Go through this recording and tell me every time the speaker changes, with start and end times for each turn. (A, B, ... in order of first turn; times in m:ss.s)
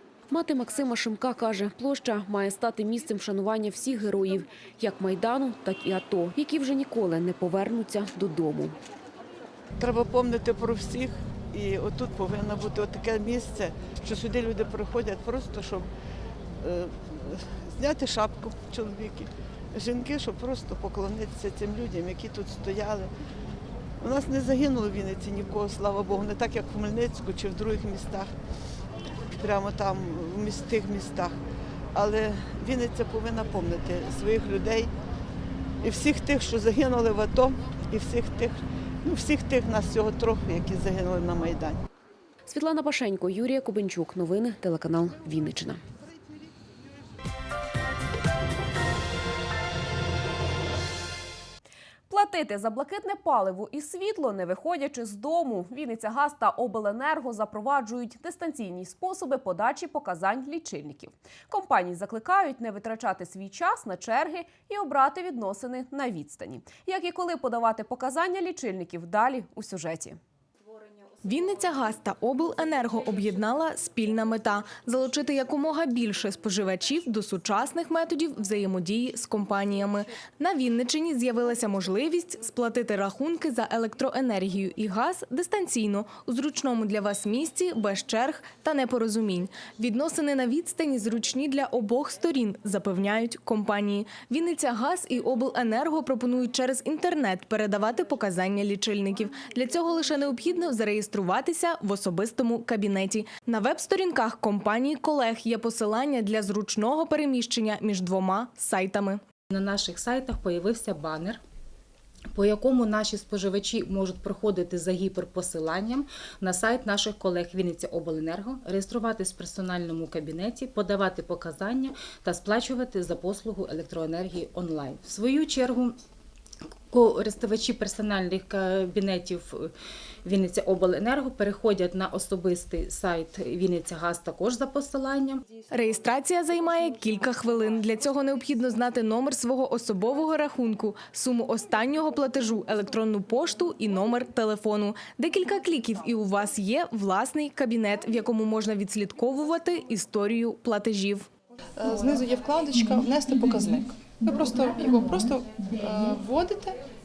0:00.3-0:08.7 A
0:09.8-0:15.9 B
0:16.6-0:23.1 B
0:24.0-0:28.3 B
0:29.4-0:31.4 B
0:32.0-0:34.9 B
0:35.8-0:41.8 B
0:42.5-0:45.8 A
0:52.1-1:10.2 A
1:11.2-1:49.2 C
1:49.5-1:51.4 D
1:52.4-2:06.0 D
2:06.9-2:09.7 D
2:10.2-2:15.4 D
2:15.7-2:31.3 C
2:31.8-2:36.8 E